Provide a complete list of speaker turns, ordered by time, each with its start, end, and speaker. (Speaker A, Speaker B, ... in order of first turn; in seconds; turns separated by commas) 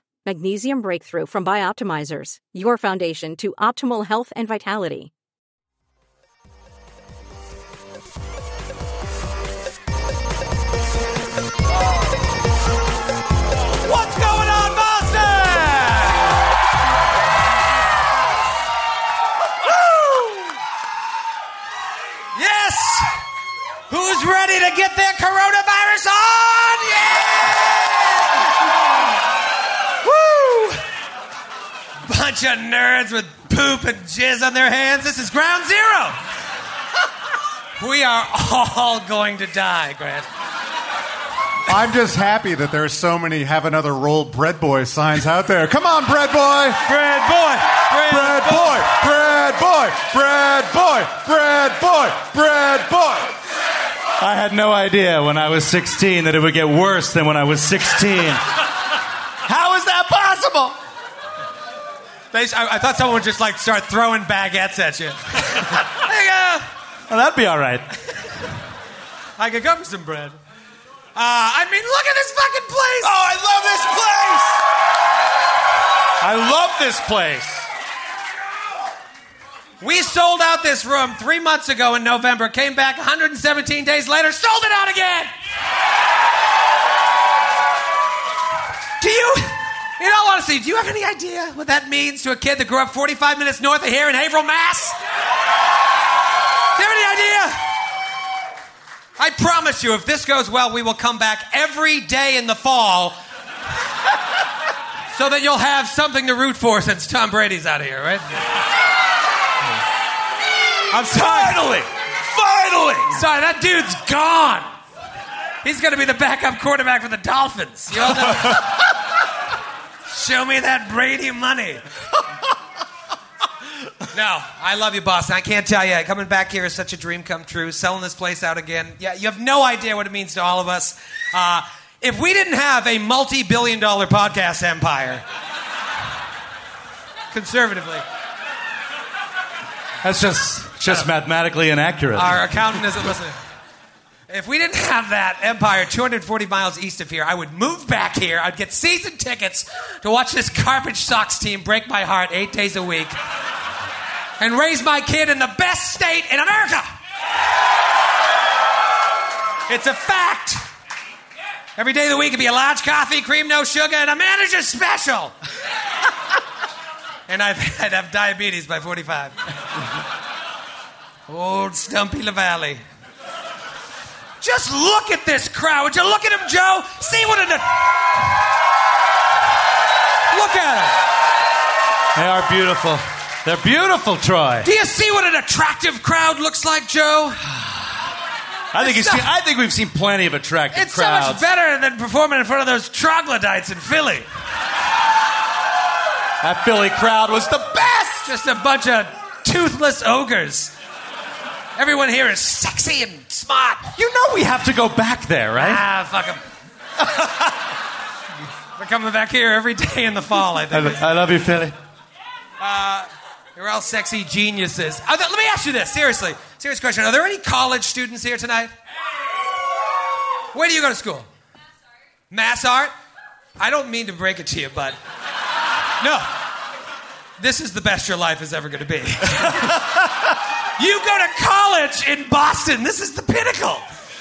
Speaker A: 0.2-5.1, Speaker B: 13.8-16.4, Speaker B: 19.6-20.6, Speaker B: 22.3-23.1, Speaker B: 23.9-28.4, Speaker B: 30.0-30.8, Speaker B: 32.0-36.2, Speaker B: 37.8-40.3, Speaker C: 41.7-46.8, Speaker B: 46.8-49.0, Speaker C: 48.0-53.3, Speaker D: 54.2-58.6, Speaker D: 59.5-60.8, Speaker B: 62.3-66.7, Speaker D: 67.1-67.9, Speaker B: 69.4-70.4, Speaker B: 71.2-73.2, Speaker D: 73.0-74.6, Speaker D: 76.2-77.7, Speaker B: 79.8-85.3, Speaker B: 89.0-95.0, Speaker B: 96.8-97.6, Speaker B: 99.2-103.2, Speaker B: 105.1-108.2, Speaker B: 110.9-111.8, Speaker D: 110.9-113.2, Speaker B: 113.1-114.7, Speaker B: 115.6-118.9, Speaker B: 120.1-121.8, Speaker B: 124.1-135.2, Speaker B: 137.3-138.0, Speaker D: 140.0-142.4, Speaker B: 142.1-143.4, Speaker B: 144.3-153.2, Speaker B: 154.4-156.9, Speaker B: 159.7-160.6, Speaker B: 161.8-165.3, Speaker B: 167.3-169.4, Speaker B: 171.3-172.8, Speaker B: 174.4-178.0, Speaker B: 180.3-181.0, Speaker D: 182.2-184.7, Speaker B: 184.6-187.4, Speaker D: 188.7-191.4, Speaker B: 188.8-189.3, Speaker B: 190.7-194.3, Speaker D: 196.4-198.2, Speaker B: 198.2-200.7, Speaker B: 201.8-203.8, Speaker D: 203.9-205.8, Speaker B: 205.6-206.4, Speaker B: 208.8-211.0, Speaker D: 210.7-211.8, Speaker B: 212.6-218.7, Speaker B: 220.5-221.3, Speaker B: 222.3-222.9, Speaker B: 223.6-225.0, Speaker B: 226.0-226.3, Speaker B: 227.4-230.1, Speaker B: 230.8-233.8